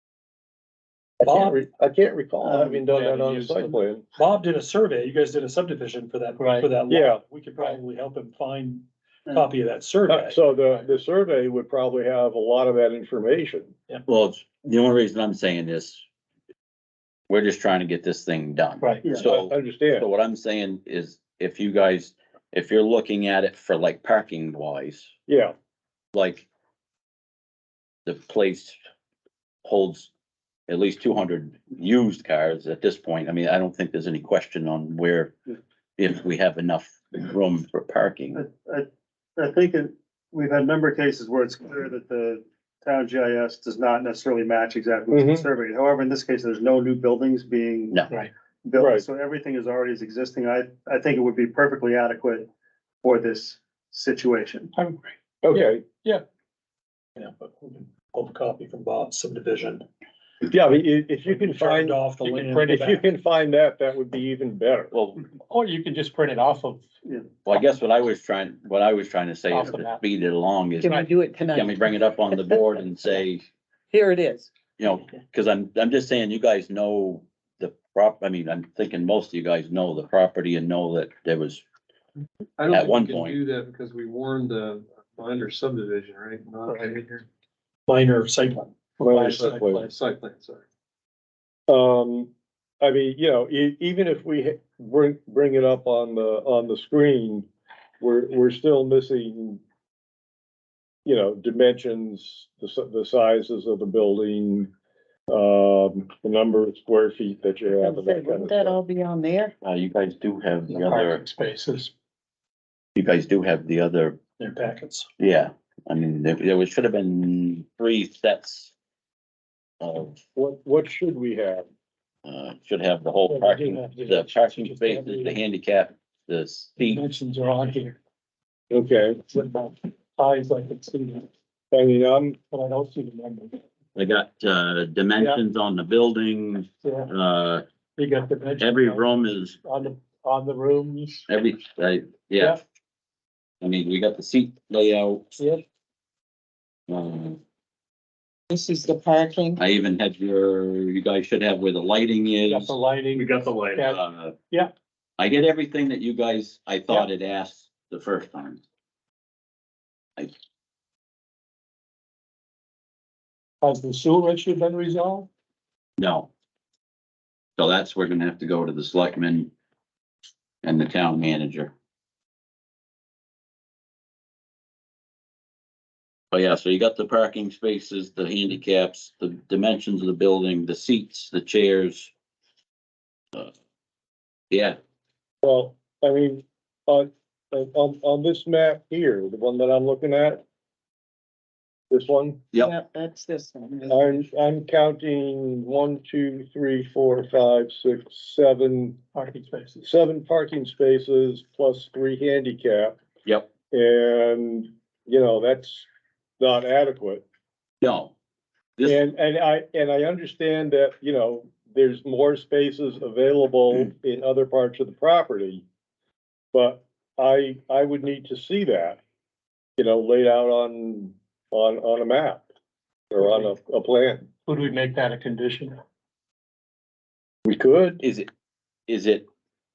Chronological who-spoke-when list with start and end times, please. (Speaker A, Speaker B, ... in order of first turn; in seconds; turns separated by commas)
Speaker A: 1.2-4.0, Speaker B: 1.2-1.6, Speaker C: 2.5-3.8, Speaker B: 4.2-10.4, Speaker C: 6.4-6.7, Speaker A: 6.9-7.2, Speaker A: 10.1-13.7, Speaker D: 14.1-16.1, Speaker D: 17.3-25.1, Speaker C: 18.8-19.1, Speaker A: 19.2-20.1, Speaker A: 25.3-25.5, Speaker D: 26.1-26.5, Speaker D: 28.1-28.8, Speaker D: 29.6-30.1, Speaker D: 30.7-35.3, Speaker D: 36.0-38.4, Speaker E: 38.4-48.0, Speaker A: 45.1-45.5, Speaker E: 48.6-52.5, Speaker A: 48.8-49.0, Speaker E: 53.0-54.7, Speaker C: 54.7-56.2, Speaker A: 55.4-55.8, Speaker B: 57.2-59.9, Speaker A: 60.4-62.0, Speaker B: 61.2-63.0, Speaker C: 62.2-62.9, Speaker A: 62.7-64.9, Speaker D: 64.9-65.2, Speaker C: 65.5-66.8, Speaker D: 67.5-73.4, Speaker C: 69.5-70.0, Speaker F: 70.8-72.7, Speaker F: 73.9-74.5, Speaker D: 74.8-81.6, Speaker G: 82.6-87.2, Speaker D: 82.7-83.4, Speaker C: 86.7-86.9, Speaker B: 87.9-88.7, Speaker A: 89.0-89.8, Speaker C: 89.1-89.9, Speaker G: 89.2-90.6, Speaker A: 91.7-92.3, Speaker A: 92.8-97.5, Speaker A: 98.0-99.6, Speaker A: 101.0-104.7, Speaker A: 105.3-108.8, Speaker F: 107.8-109.5, Speaker D: 109.6-111.2, Speaker C: 110.7-111.9, Speaker D: 113.0-114.2, Speaker B: 114.4-115.1, Speaker D: 115.2-118.7, Speaker D: 119.8-120.2, Speaker A: 120.4-121.7, Speaker D: 122.3-127.1, Speaker C: 123.3-125.4, Speaker C: 126.8-128.0, Speaker A: 128.7-129.2, Speaker C: 129.3-131.3, Speaker A: 131.7-132.4, Speaker C: 132.5-133.6, Speaker D: 133.9-137.6, Speaker C: 136.8-137.1, Speaker C: 138.0-141.2, Speaker D: 138.6-139.6, Speaker D: 141.3-142.6, Speaker D: 143.6-145.4, Speaker D: 146.9-147.4, Speaker F: 148.5-149.6, Speaker D: 149.6-152.8, Speaker C: 152.5-154.0, Speaker E: 153.1-153.9, Speaker D: 153.9-154.3, Speaker D: 155.2-158.6, Speaker C: 163.6-165.3, Speaker D: 166.0-166.3, Speaker D: 167.6-169.5, Speaker D: 170.6-171.7, Speaker D: 176.3-182.1, Speaker D: 184.5-184.8, Speaker A: 185.4-190.4, Speaker A: 191.9-192.4, Speaker F: 192.6-194.1, Speaker A: 193.9-199.0, Speaker C: 199.2-199.8, Speaker A: 199.8-203.0, Speaker D: 203.2-203.5, Speaker A: 203.7-205.9, Speaker A: 206.4-207.2, Speaker D: 207.8-208.1, Speaker D: 208.8-209.0, Speaker A: 208.8-215.7, Speaker A: 216.5-219.0, Speaker A: 219.8-222.4, Speaker A: 223.1-224.3, Speaker C: 224.5-225.8, Speaker A: 227.4-228.0, Speaker D: 228.0-228.3, Speaker D: 228.9-229.3